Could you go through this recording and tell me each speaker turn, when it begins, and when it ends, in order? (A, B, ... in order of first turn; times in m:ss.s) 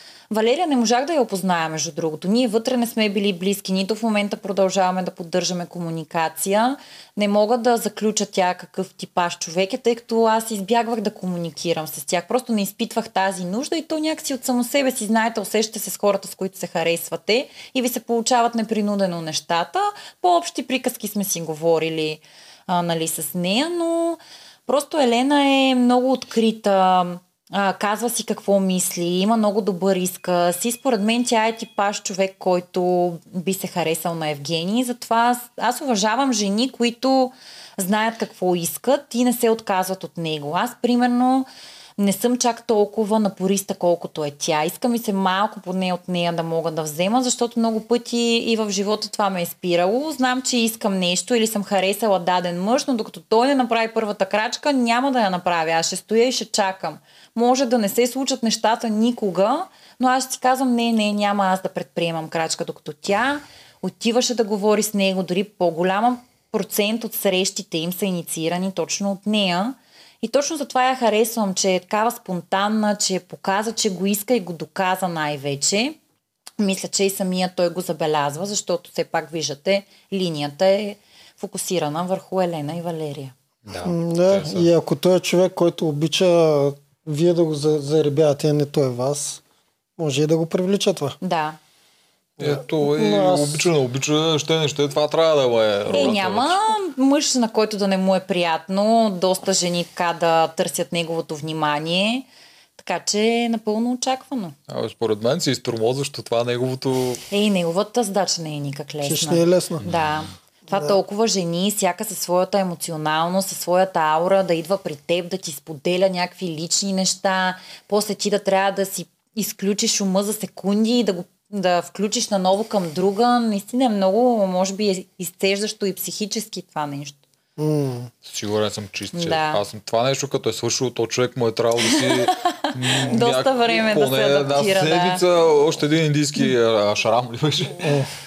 0:00.3-1:16.0 A
1:16.6-1:23.3 A
1:23.6-1:24.7 B
1:23.8-1:29.4 C
1:30.0-1:31.2 C
1:31.2-1:31.6 A
1:32.4-1:36.7 B
1:32.4-1:33.7 C
1:35.9-1:44.6 A
1:44.7-1:47.2 B
1:47.3-2:07.2 A
1:49.0-1:49.9 C
2:07.6-2:08.1 C
2:08.2-2:18.0 B
2:09.1-2:09.6 A
2:11.8-2:15.2 A
2:17.8-2:18.1 C